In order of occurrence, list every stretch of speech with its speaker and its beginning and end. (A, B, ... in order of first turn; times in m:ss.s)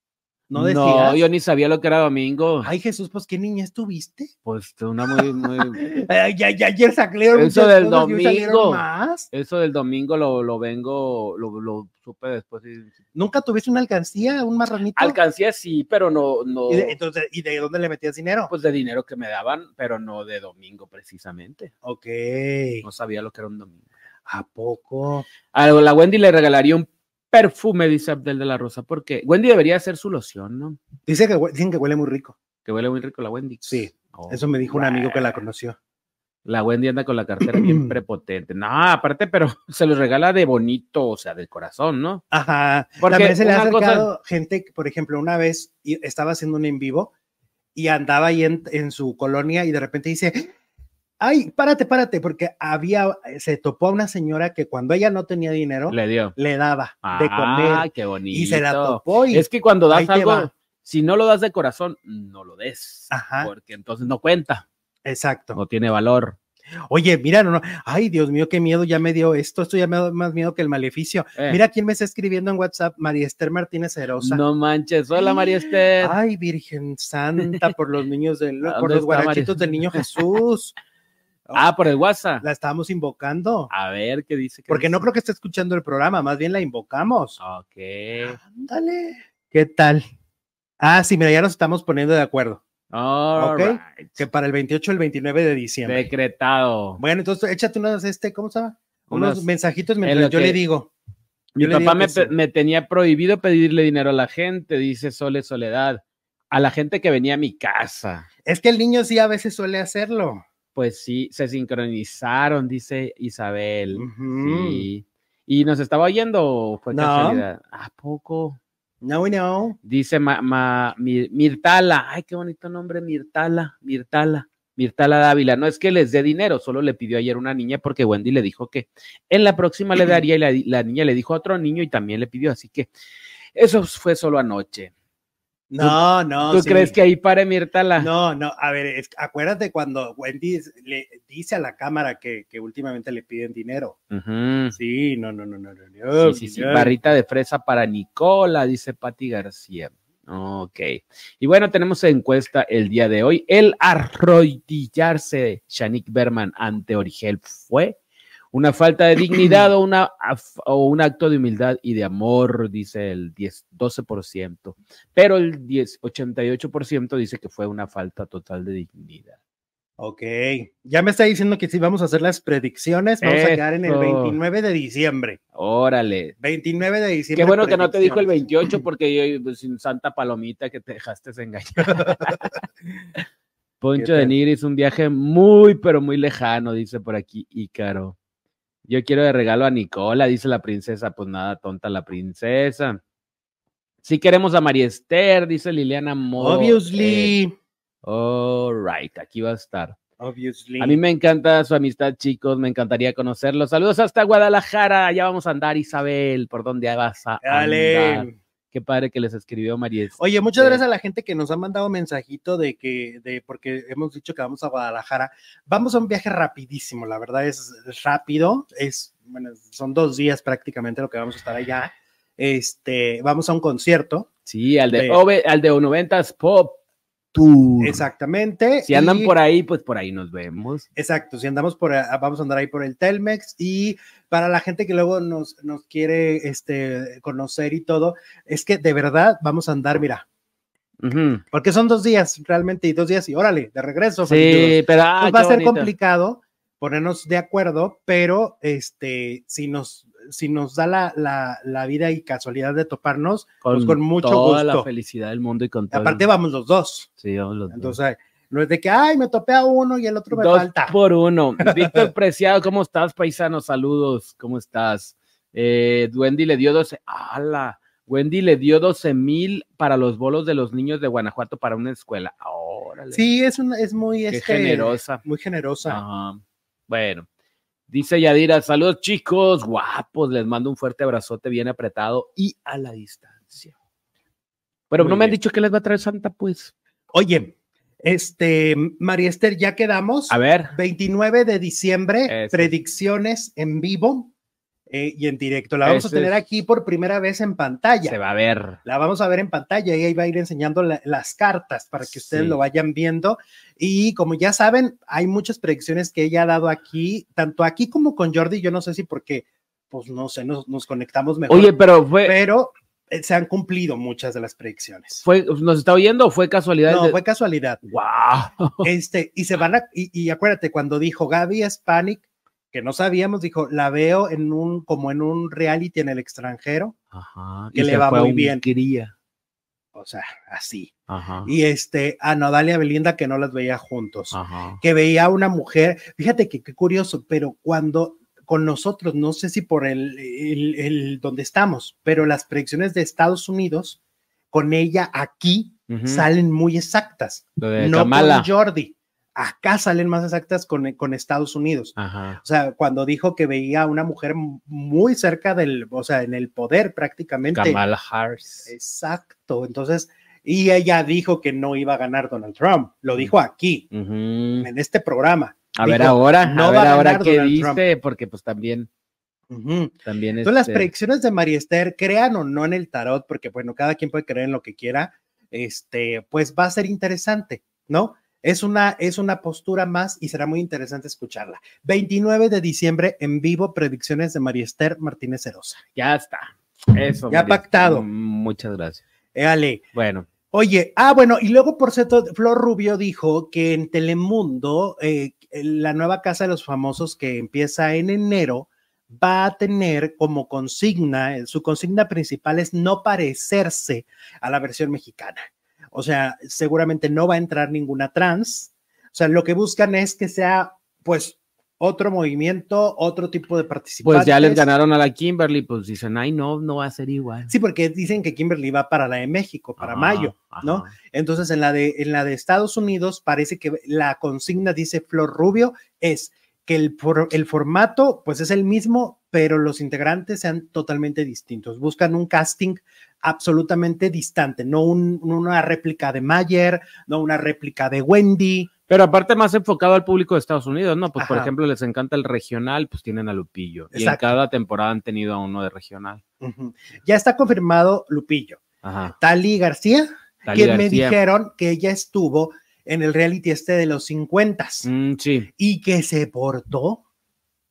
0:00.5-0:01.2 A
0:00.5-0:02.7 B
0:02.6-0:04.3 A
0:04.4-0:05.8 B
0:05.1-0:09.3 A
0:07.3-0:12.9 B
0:13.1-0:15.2 A
0:15.0-0:17.0 B
0:16.7-0:18.5 A
0:18.5-0:21.7 B
0:21.8-0:22.8 A
0:22.8-0:23.8 B
0:24.3-0:25.2 A
0:25.5-0:30.8 B
0:31.0-0:32.4 A
0:32.6-0:35.4 B
0:33.7-0:35.8 A
0:36.4-0:42.2 B
0:37.4-0:37.9 A
0:42.3-0:47.1 A
0:43.0-0:44.1 B
0:47.7-0:50.5 A
0:51.2-1:00.5 A
0:55.9-0:56.4 B
0:57.0-1:04.6 B
1:03.1-1:03.5 A
1:05.0-1:05.6 A
1:05.5-1:06.4 B
1:06.9-1:14.4 A
1:14.2-1:16.2 B
1:15.2-1:20.7 A
1:18.6-1:20.2 B
1:21.5-1:22.4 B
1:22.4-1:23.7 A
1:23.7-1:25.1 B
1:24.7-1:27.4 A
1:27.4-1:28.4 B
1:28.4-1:30.0 A
1:30.8-1:32.6 A
1:32.9-1:34.2 B
1:33.4-1:36.0 A
1:35.8-1:37.0 B
1:37.0-1:40.9 A
1:39.1-1:39.5 B
1:40.0-1:40.6 B
1:41.5-1:48.3 B
1:41.6-1:42.3 A
1:48.4-1:50.4 A
1:50.7-1:58.6 B
1:53.9-1:54.9 A
1:56.9-1:57.4 A
1:59.0-1:59.8 A
1:59.8-2:12.9 B
2:13.5-2:14.9 B
2:15.7-2:17.0 A
2:15.8-2:18.1 B
2:18.0-2:24.0 A
2:24.1-2:24.8 B
2:24.7-2:26.9 A
2:26.2-2:38.0 B
2:38.5-2:49.4 B
2:39.4-2:39.6 A
2:50.0-2:55.4 A
2:53.2-2:54.4 B
2:55.5-2:56.3 B
2:56.4-2:58.8 A
2:57.3-3:02.5 B
3:01.9-3:02.2 A
3:03.8-3:08.2 B
3:04.0-3:04.3 A
3:08.9-3:13.0 B
3:14.0-3:17.3 B
3:16.4-3:17.5 A
3:18.0-3:20.0 B
3:20.2-3:21.0 A
3:20.8-3:30.8 B
3:27.4-3:28.3 A
3:30.2-3:44.3 A
3:44.4-3:46.8 B
3:44.9-3:45.2 A
3:47.3-3:48.0 B
3:47.8-3:49.3 A
3:48.8-3:50.8 B
3:51.0-4:00.2 A
4:01.0-4:01.4 B
4:01.5-4:14.9 A
4:04.2-4:05.9 B
4:13.6-4:16.3 B
4:15.9-4:17.1 A
4:17.2-4:18.0 B
4:17.7-4:20.9 A
4:20.3-4:33.2 B
4:21.6-4:22.1 A
4:33.1-4:36.0 A
4:34.3-4:35.2 B
4:35.8-4:37.3 B
4:37.9-4:43.7 B
4:44.9-4:46.7 B
4:45.0-4:45.4 A
4:47.1-4:54.3 A
4:50.3-4:50.7 B
4:52.3-4:52.7 B
4:54.9-4:58.2 A
4:55.8-4:56.4 B
4:58.1-4:58.8 B
4:58.8-5:15.2 A
5:02.0-5:02.6 B
5:11.5-5:12.4 B
5:15.2-5:17.2 B
5:16.9-5:17.8 A
5:17.8-5:18.9 B
5:18.8-5:26.9 A
5:27.1-5:29.1 B
5:27.7-5:28.6 A
5:29.9-5:30.9 A
5:31.1-5:31.5 B
5:31.4-5:44.0 A
5:34.3-5:34.8 B
5:44.5-5:57.8 A
5:45.9-5:46.3 B
5:47.6-5:48.5 B
5:52.0-5:52.4 B
5:57.5-5:58.7 B
5:58.6-6:03.9 A
6:03.9-6:04.7 B
6:04.6-6:07.8 A
6:05.7-6:08.9 B
6:09.5-6:25.8 A
6:10.0-6:10.9 B
6:26.0-6:29.0 B
6:27.3-6:28.0 A
6:29.3-6:29.8 A
6:29.9-6:30.3 B
6:30.5-6:45.4 A
6:45.9-6:54.7 A
6:54.0-6:57.5 B
6:57.5-7:18.7 A
6:59.8-7:00.9 B
7:18.9-7:26.2 B
7:21.2-7:21.5 A
7:23.9-7:24.3 A
7:26.4-7:28.6 A
7:28.8-7:29.1 B
7:29.1-7:34.9 A
7:30.4-7:31.2 B
7:34.8-7:35.5 B
7:35.6-7:37.0 A